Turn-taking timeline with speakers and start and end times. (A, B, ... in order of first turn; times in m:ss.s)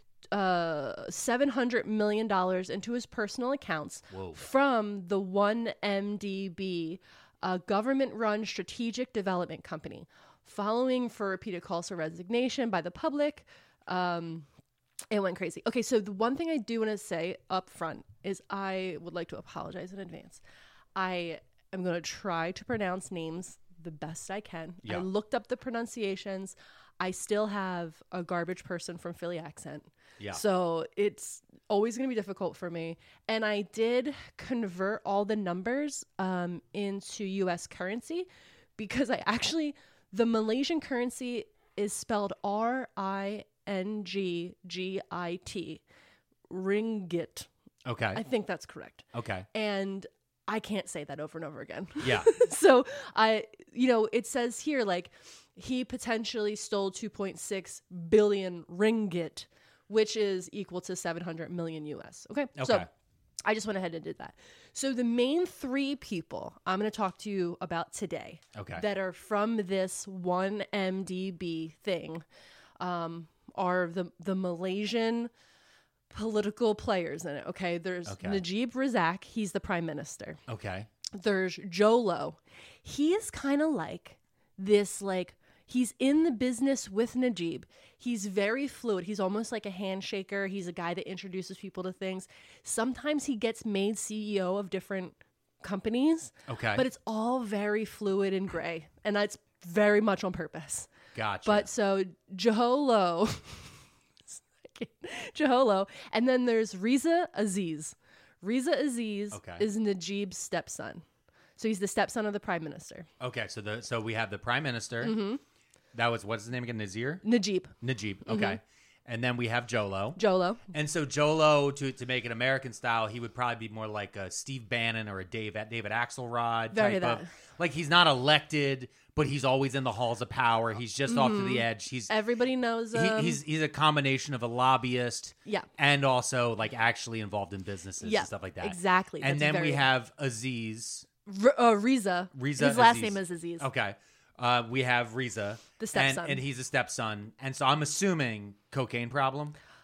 0:00.3-0:14.5 A
0:04.1-0:04.4 B
0:15.1-0:20.4 A
0:21.0-0:45.8 A
0:46.5-0:47.5 A
0:47.9-0:48.2 B
0:48.2-0:49.0 A
0:49.1-0:49.5 B
0:49.5-1:02.9 A
0:52.0-0:52.3 B
1:02.6-1:02.9 B
1:03.5-1:12.2 A
1:08.6-1:08.8 B
1:12.8-1:15.3 A
1:16.1-1:20.4 A
1:18.1-1:18.4 B
1:20.5-1:20.9 B
1:21.2-1:40.9 A
1:36.5-1:36.8 B
1:41.1-1:41.7 B
1:41.4-1:43.7 A
1:44.3-1:51.0 A
1:49.3-1:49.6 B
1:51.6-1:53.1 A
1:53.2-1:55.2 B
1:55.0-1:55.4 A
1:55.9-1:57.2 B
1:57.2-1:57.7 A
1:57.8-2:00.2 B
1:58.3-1:58.6 A
2:00.2-2:00.6 A
2:00.7-2:12.1 B
2:06.7-2:07.3 A
2:11.1-2:13.4 A
2:12.9-2:21.1 B
2:18.0-2:19.8 A
2:21.3-2:23.7 A
2:22.4-2:29.6 B
2:25.8-2:26.4 A